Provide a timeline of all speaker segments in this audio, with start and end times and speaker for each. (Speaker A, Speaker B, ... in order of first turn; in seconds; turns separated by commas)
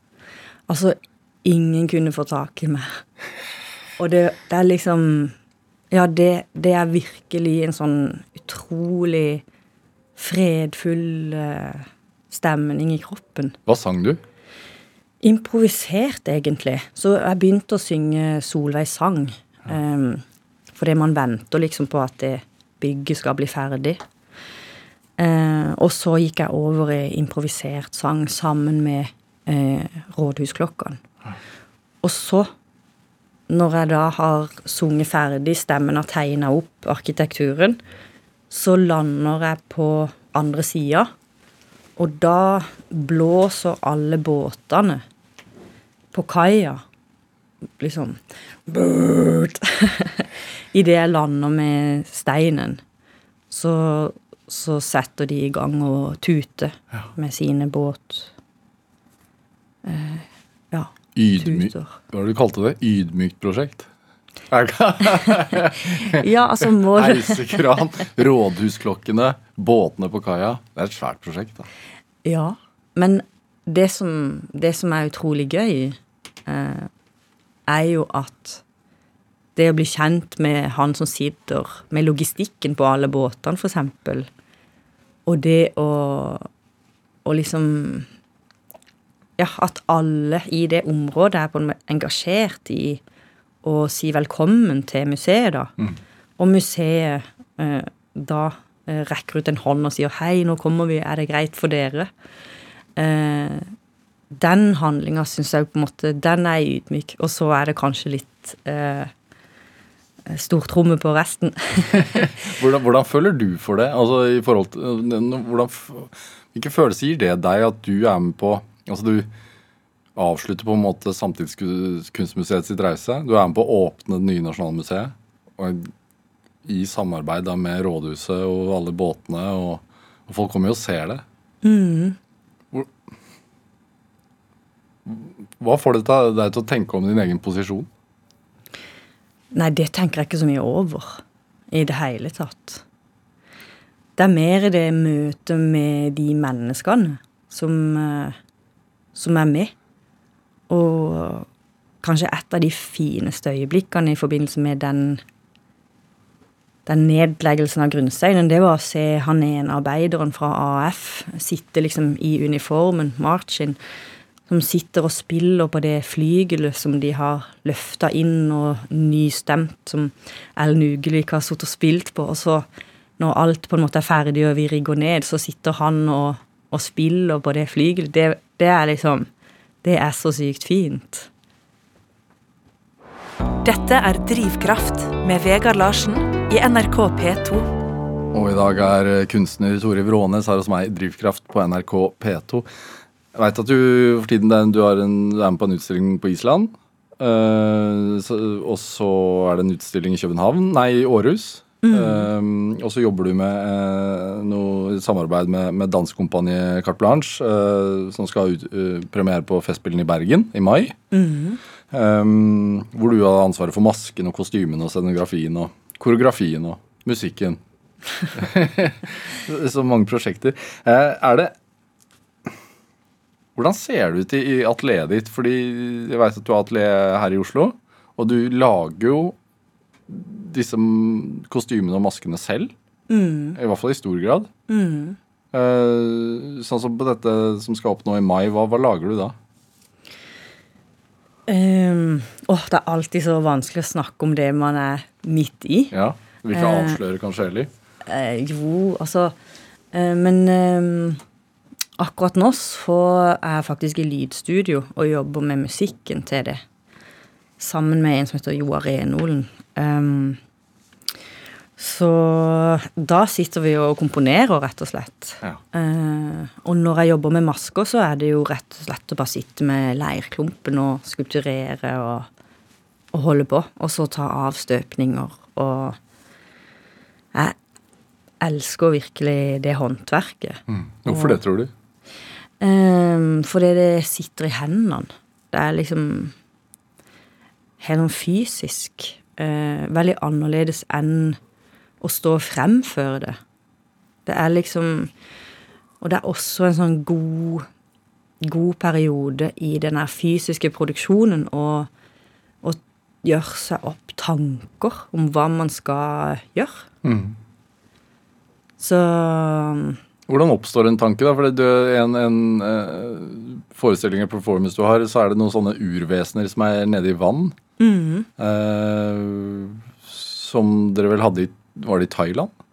Speaker A: 0.7-3.0, Speaker A: 4.0-5.3, Speaker A: 5.9-9.4, Speaker A: 10.2-13.6, Speaker B: 13.7-14.2, Speaker A: 15.2-20.2, Speaker A: 20.7-24.0, Speaker A: 25.2-31.0, Speaker A: 32.0-32.5, Speaker A: 33.5-37.8, Speaker A: 38.5-41.1, Speaker A: 42.0-45.0, Speaker A: 46.1-46.8, Speaker A: 47.8-52.8, Speaker A: 53.5-58.3, Speaker A: 59.8-62.0, Speaker B: 61.1-63.9, Speaker B: 64.5-71.7, Speaker A: 66.0-67.6, Speaker A: 72.2-76.9, Speaker A: 77.7-78.6, Speaker A: 79.5-84.3, Speaker A: 85.2-86.5, Speaker A: 87.2-88.1, Speaker A: 89.4-93.0, Speaker A: 93.6-95.7, Speaker A: 96.4-102.1, Speaker A: 103.0-103.7, Speaker A: 104.3-109.1, Speaker A: 110.3-112.1, Speaker B: 111.9-119.3, Speaker B: 120.2-125.9, Speaker B: 126.6-131.2, Speaker A: 131.6-132.2, Speaker B: 135.0-137.9, Speaker A: 139.5-142.8, Speaker A: 144.2-148.3, Speaker A: 149.1-149.7, Speaker A: 150.7-151.5, Speaker A: 152.0-155.2, Speaker A: 156.8-163.8, Speaker A: 164.5-172.7, Speaker A: 173.2-179.3, Speaker A: 179.8-181.3, Speaker C: 183.6-187.7, Speaker B: 188.3-192.7, Speaker B: 193.3-211.0, Speaker A: 201.8-202.3, Speaker A: 211.1-211.6, Speaker B: 211.9-217.6, Speaker B: 218.3-221.5, Speaker B: 223.6-229.3, Speaker B: 230.1-232.7, Speaker A: 233.1-233.6, Speaker B: 233.5-234.5, Speaker A: 234.7-235.2, Speaker B: 235.5-239.3, Speaker A: 241.5-245.9, Speaker B: 245.9-247.7, Speaker A: 246.5-247.0, Speaker A: 248.1-249.3, Speaker A: 249.9-251.2, Speaker A: 252.0-256.6, Speaker A: 257.6-260.4, Speaker A: 261.8-272.3, Speaker A: 273.1-276.0, Speaker A: 278.4-281.4, Speaker B: 280.7-281.7, Speaker A: 282.6-286.3, Speaker A: 287.8-291.4, Speaker A: 292.0-293.4, Speaker A: 294.2-295.1, Speaker A: 296.0-297.6, Speaker A: 298.4-301.9, Speaker A: 302.6-306.9, Speaker B: 307.0-307.4, Speaker A: 308.8-310.0, Speaker B: 310.3-317.5, Speaker A: 317.8-318.3, Speaker B: 318.4-322.5